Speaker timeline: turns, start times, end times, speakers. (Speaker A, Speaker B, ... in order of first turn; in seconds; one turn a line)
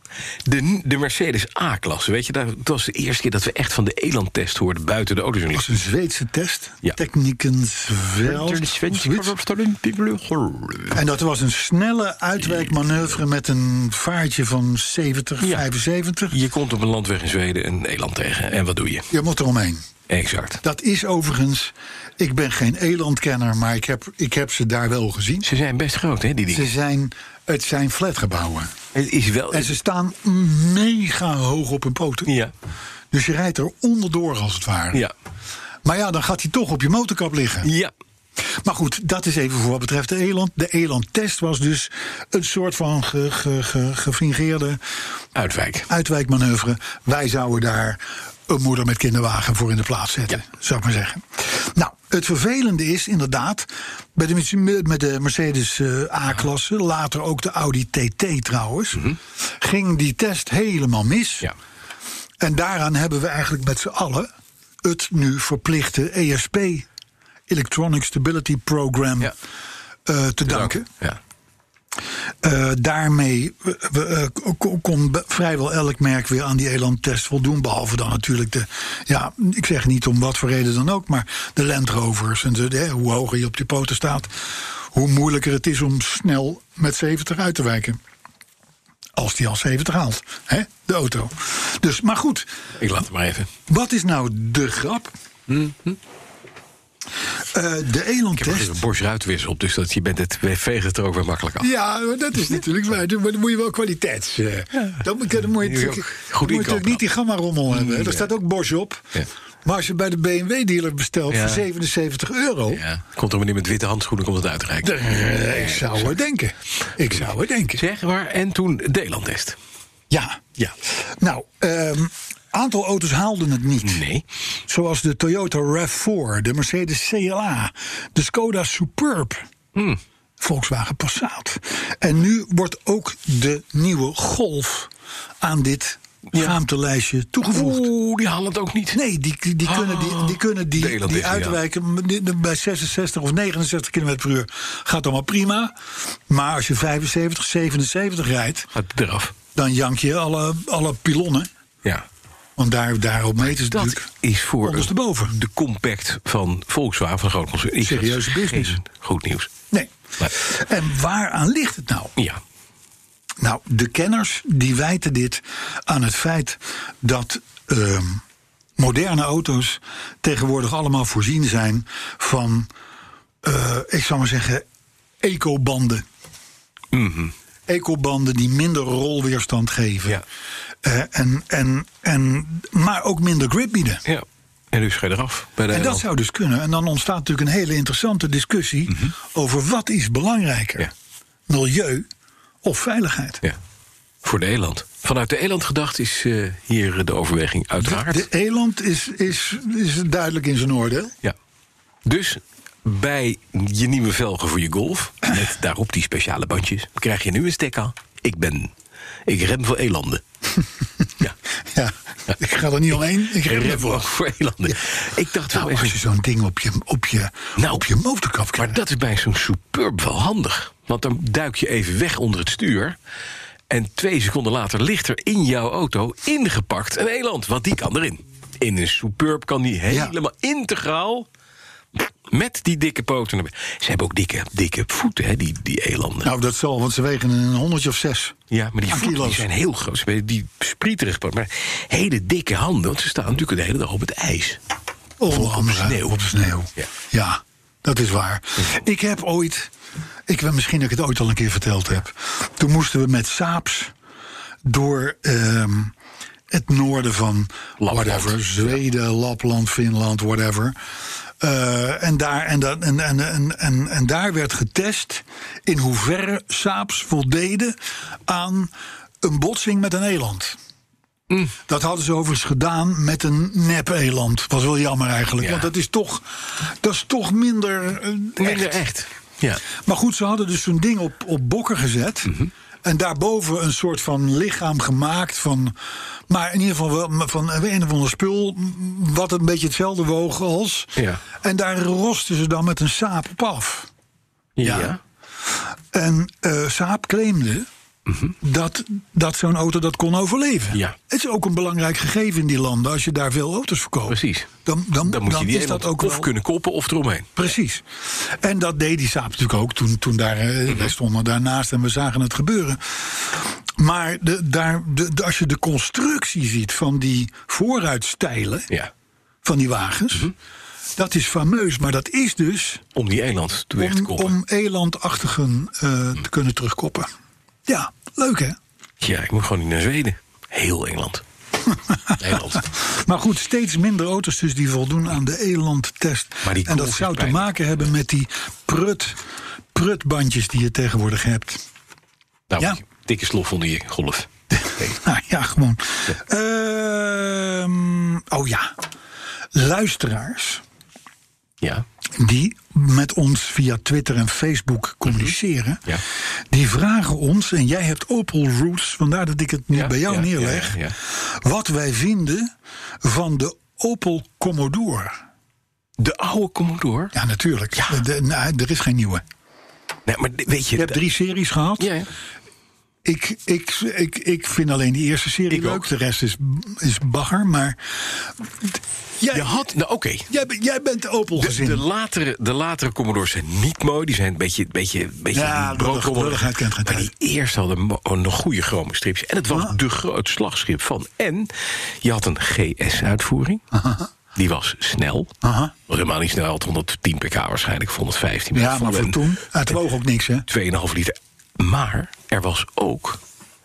Speaker A: 0.5-5.8
Speaker B: 5.5-9.3
Speaker A: 8.2-11.0
Speaker B: 10.9-16.4
Speaker A: 15.4-15.7
Speaker A: 16.3-19.1
Speaker B: 19.1-19.8
Speaker A: 20.1-20.6
Speaker B: 20.6-25.5
Speaker A: 25.4-26.7
Speaker B: 26.5-28.7
Speaker A: 28.9-29.7
Speaker B: 29.5-32.3
Speaker A: 32.3-32.5
Speaker B: 33.1-35.1
Speaker B: 35.8-37.7
Speaker A: 37.6-37.9
Speaker B: 38.5-44.8
Speaker A: 45.4-45.9
Speaker B: 45.9-61.5
Speaker B: 62.4-64.3
Speaker B: 64.8-66.9
Speaker B: 67.5-69.3
Speaker B: 70.1-70.9
Speaker A: 70.5-71.2
Speaker B: 72.4-88.0
Speaker B: 89.2-92.5
Speaker A: 92.8-93.5
Speaker B: 93.7-95.1
Speaker A: 95.5-96.0
Speaker B: 97.5-98.8
Speaker A: 98.4-101.7
Speaker B: 101.6-109.1
Speaker A: 105.6-107.0
Speaker A: 107.7-108.3
Speaker B: 109.7-112.8
Speaker A: 111.3-111.7
Speaker A: 112.7-116.2
Speaker B: 114.8-117.8
Speaker A: 117.8-119.6
Speaker B: 120.1-124.0
Speaker A: 123.8-124.2
Speaker B: 124.7-129.5
Speaker A: 129.8-130.0
Speaker B: 130.4-134.9
Speaker B: 135.4-137.9
Speaker A: 137.5-139.0
Speaker B: 138.9-145.7
Speaker A: 139.7-141.6
Speaker B: 146.3-148.7
Speaker A: 148.7-149.3
Speaker B: 149.6-151.5
Speaker B: 152.6-154.1
Speaker A: 153.5-159.5
Speaker B: 154.6-155.4
Speaker B: 157.8-158.8
Speaker B: 159.7-162.1
Speaker B: 163.4-168.2
Speaker B: 168.8-172.7
Speaker B: 173.4-174.7
Speaker B: 175.2-176.0
Speaker A: 176.9-177.3
Speaker B: 177.7-180.2
Speaker B: 180.8-184.0
Speaker A: 184.1-186.0
Speaker B: 185.7-190.9
Speaker B: 191.5-192.1
Speaker B: 192.6-193.4
Speaker A: 194.2-198.3
Speaker B: 197.8-201.1
Speaker A: 202.1-208.7
Speaker A: 209.3-210.2
Speaker B: 211.7-214.1
Speaker A: 213.2-216.0
Speaker B: 215.5-218.8
Speaker A: 217.6-217.9
Speaker A: 218.5-223.0
Speaker A: 223.7-231.3
Speaker B: 229.9-230.2
Speaker A: 232.0-236.3
Speaker B: 236.2-238.4
Speaker A: 238.5-244.6
Speaker B: 238.9-239.5
Speaker B: 245.2-249.7
Speaker A: 245.3-246.9
Speaker B: 250.3-253.9
Speaker B: 254.7-255.9
Speaker B: 256.5-260.8
Speaker A: 257.8-258.8
Speaker B: 261.4-267.8
Speaker B: 268.3-270.6
Speaker A: 271.3-271.6
Speaker B: 271.7-278.8
Speaker A: 275.4-275.7
Speaker A: 278.4-279.6
Speaker B: 279.8-285.8
Speaker B: 286.3-293.9
Speaker A: 291.0-291.2
Speaker A: 294.6-295.0
Speaker B: 294.6-295.0
Speaker B: 295.5-297.7
Speaker A: 298.1-298.4
Speaker B: 298.4-306.3
Speaker A: 304.1-304.5
Speaker A: 305.0-307.4
Speaker B: 307.4-318.7
Speaker A: 310.7-310.9
Speaker B: 319.4-320.3
Speaker B: 321.0-322.8
Speaker A: 322.9-324.4
Speaker B: 323.8-327.1
Speaker B: 327.7-328.6
Speaker A: 329.0-331.2
Speaker B: 331.7-339.2
Speaker A: 332.2-332.6
Speaker A: 336.4-337.7
Speaker B: 339.7-341.6
Speaker A: 342.5-344.3
Speaker B: 344.5-348.8
Speaker B: 349.5-350.6
Speaker B: 352.2-355.8
Speaker A: 355.1-355.3
Speaker B: 356.5-362.5
Speaker A: 359.7-361.0
Speaker B: 363.0-365.2
Speaker A: 366.0-367.1
Speaker B: 367.1-369.2
Speaker A: 367.8-368.0
Speaker A: 370.1-371.0
Speaker B: 370.8-371.9
Speaker A: 371.8-372.1
Speaker B: 373.0-379.7
Speaker A: 375.5-375.9
Speaker A: 379.3-380.3
Speaker B: 380.3-381.8
Speaker A: 381.4-393.6
Speaker B: 385.3-387.1
Speaker B: 389.5-389.8
Speaker B: 393.7-394.1
Speaker A: 394.4-395.3
Speaker B: 395.4-395.7
Speaker A: 395.9-399.3
Speaker B: 398.5-400.5
Speaker A: 400.5-403.2